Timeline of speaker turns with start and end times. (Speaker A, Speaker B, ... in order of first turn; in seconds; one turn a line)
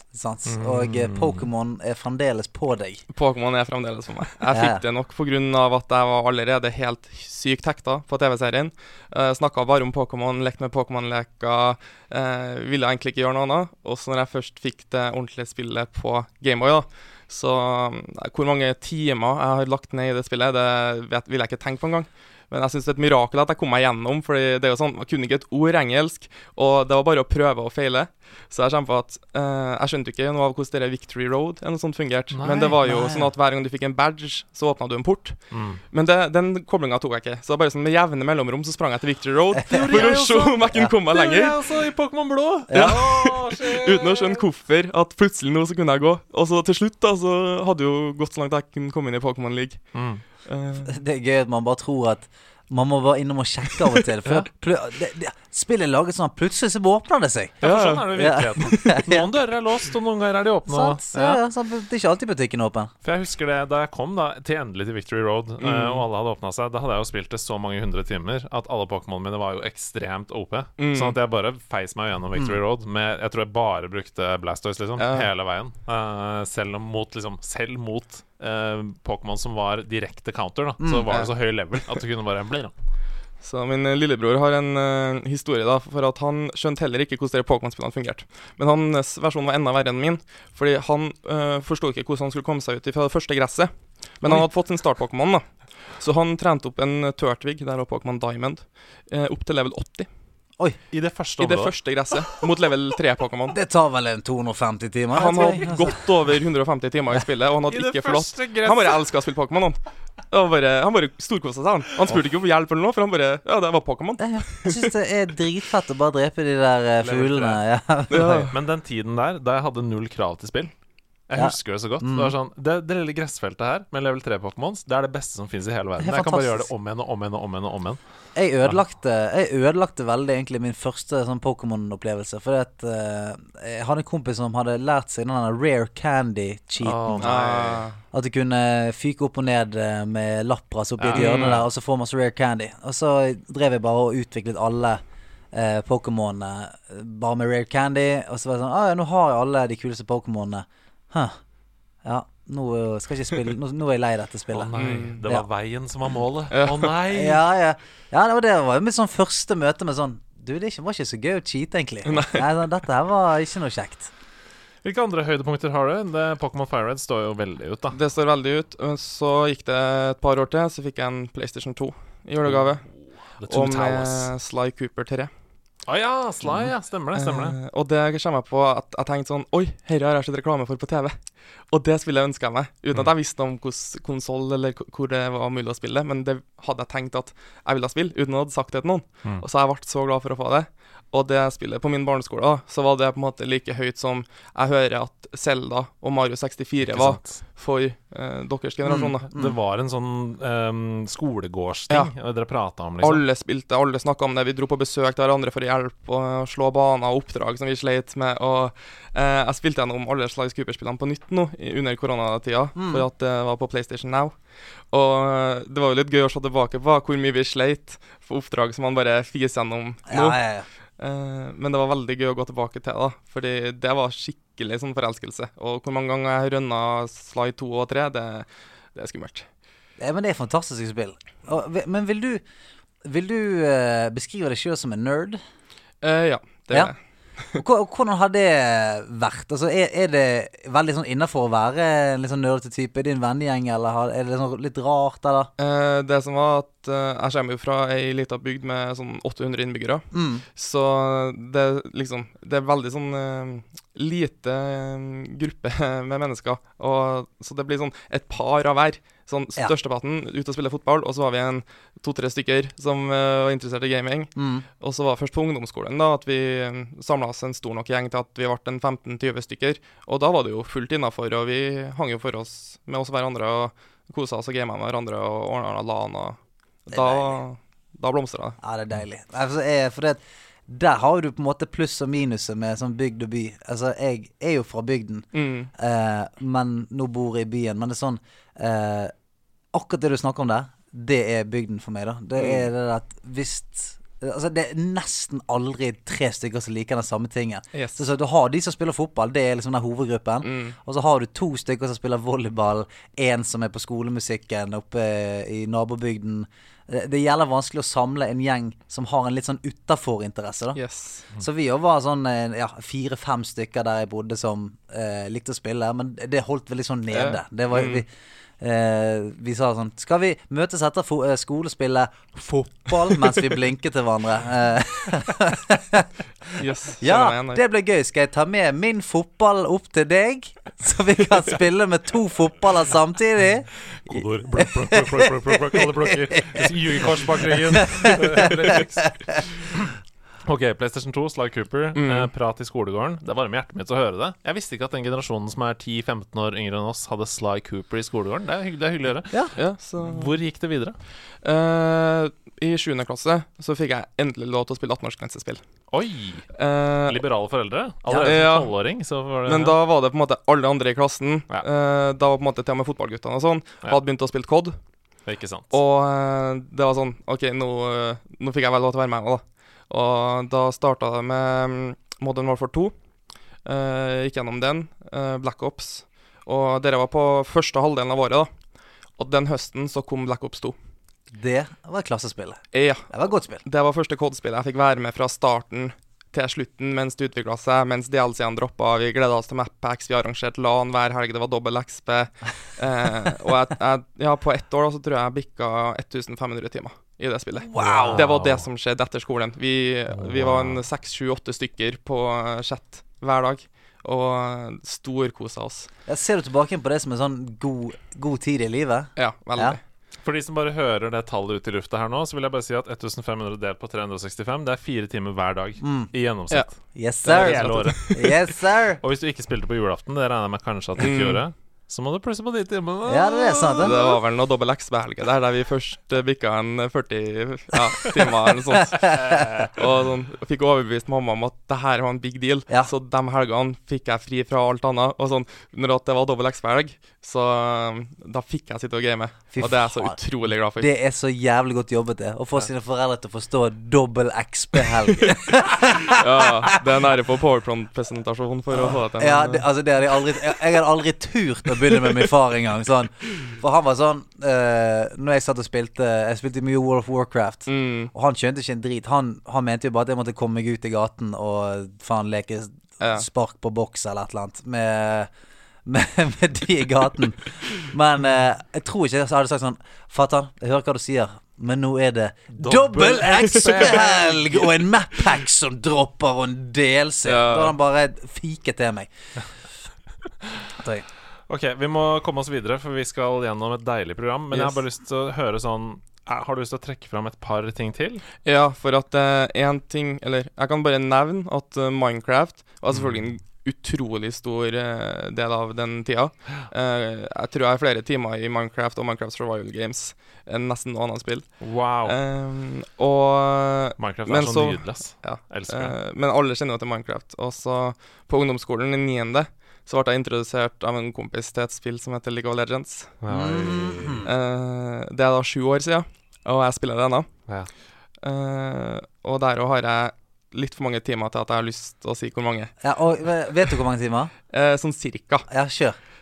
Speaker A: 0.1-3.0
Speaker B: 0.5-1.4
Speaker C: 3.1-35.4
Speaker A: 4.5-4.8
Speaker B: 32.3-32.8
Speaker A: 32.8-33.3
Speaker B: 35.5-35.8
Speaker C: 35.9-41.6
Speaker A: 39.6-40.1
Speaker B: 39.6-44.4
Speaker A: 42.7-43.0
Speaker C: 42.7-49.8
Speaker B: 49.9-50.2
Speaker C: 50.4-50.9
Speaker A: 50.8-59.3
Speaker C: 57.6-58.9
Speaker B: 57.6-61.4
Speaker A: 60.7-62.9
Speaker B: 63.0-82.7
Speaker C: 65.6-66.0
Speaker C: 70.8-71.2
Speaker C: 75.0-75.3
Speaker A: 80.8-81.1
Speaker C: 83.4-95.4
Speaker C: 96.0-100.1
Speaker B: 100.9-101.7
Speaker C: 101.4-103.6
Speaker A: 103.5-106.0
Speaker C: 105.1-109.8
Speaker B: 105.4-105.7
Speaker B: 107.7-109.0
Speaker C: 110.3-114.9
Speaker A: 114.2-118.5
Speaker B: 117.0-117.6
Speaker C: 118.1-118.5
Speaker B: 118.5-120.7
Speaker B: 121.3-128.0
Speaker A: 121.3-122.3
Speaker A: 126.0-126.7
Speaker A: 128.3-137.4
Speaker B: 136.8-137.8
Speaker C: 137.2-137.9
Speaker A: 138.1-145.0
Speaker B: 141.0-141.7
Speaker C: 141.1-141.6
Speaker A: 145.5-151.3
Speaker A: 152.0-154.7
Speaker B: 154.5-157.4
Speaker C: 154.8-155.2
Speaker C: 156.5-156.9
Speaker A: 157.1-164.1
Speaker C: 162.0-162.4
Speaker B: 164.8-168.0
Speaker C: 167.9-172.8
Speaker B: 172.4-174.3
Speaker C: 173.5-175.3
Speaker B: 175.9-177.6
Speaker C: 177.1-181.2
Speaker C: 181.7-199.2
Speaker B: 196.8-197.4
Speaker A: 198.8-199.6
Speaker B: 199.3-203.2
Speaker C: 203.0-214.3
Speaker A: 212.8-213.1
Speaker C: 214.9-220.4
Speaker A: 220.1-220.7
Speaker C: 221.0-229.5
Speaker A: 230.0-232.4
Speaker A: 233.0-235.4
Speaker C: 236.0-236.9
Speaker A: 237.6-245.5
Speaker C: 245.6-278.6
Speaker A: 250.1-250.4
Speaker A: 264.4-264.6
Speaker A: 276.9-277.4
Speaker A: 278.6-289.1
Speaker C: 285.3-285.7
Speaker A: 289.7-310.8
Speaker C: 292.4-292.6
Speaker C: 297.7-298.0
Speaker C: 300.4-300.8
Speaker C: 310.7-311.2
Speaker A: 311.4-318.1
Speaker C: 317.1-318.0
Speaker A: 318.6-326.1
Speaker C: 326.6-327.6
Speaker A: 327.0-336.7
Speaker B: 334.1-339.9
Speaker A: 337.4-338.8
Speaker B: 340.4-351.0
Speaker C: 341.9-342.3
Speaker C: 349.6-350.3
Speaker C: 351.4-355.6
Speaker B: 355.9-356.5
Speaker C: 356.5-357.2
Speaker B: 357.1-359.8
Speaker A: 358.1-358.3
Speaker C: 358.2-358.7
Speaker C: 359.4-364.8
Speaker B: 365.2-365.7
Speaker C: 365.7-372.9
Speaker C: 373.6-378.5
Speaker C: 379.2-380.8
Speaker A: 381.3-383.6
Speaker C: 382.7-383.1
Speaker C: 383.6-405.9
Speaker A: 397.6-398.2
Speaker B: 397.7-398.6
Speaker B: 400.1-400.8
Speaker A: 406.1-409.8
Speaker C: 409.2-409.8
Speaker B: 410.2-416.7
Speaker A: 415.8-416.1
Speaker A: 416.9-419.0
Speaker B: 417.2-418.5
Speaker C: 417.3-418.1
Speaker B: 419.0-424.0
Speaker C: 421.0-421.4
Speaker A: 423.1-424.0
Speaker C: 423.8-440.9
Speaker A: 429.0-429.4
Speaker B: 429.1-429.7
Speaker A: 439.5-440.2
Speaker A: 440.8-446.4
Speaker C: 446.0-449.6
Speaker A: 448.9-465.3
Speaker C: 457.7-458.1
Speaker C: 463.0-463.2
Speaker A: 465.9-479.1
Speaker B: 472.5-474.8
Speaker C: 473.3-474.0
Speaker C: 477.2-477.8
Speaker A: 480.8-481.0
Speaker B: 481.5-488.2
Speaker C: 488.4-501.5
Speaker B: 501.6-502.1
Speaker C: 502.0-513.1
Speaker B: 504.0-505.9
Speaker B: 513.2-514.3
Speaker A: 513.3-514.3
Speaker C: 514.2-517.3
Speaker C: 518.2-522.7
Speaker A: 522.8-524.3
Speaker C: 524.5-525.5
Speaker A: 525.5-526.0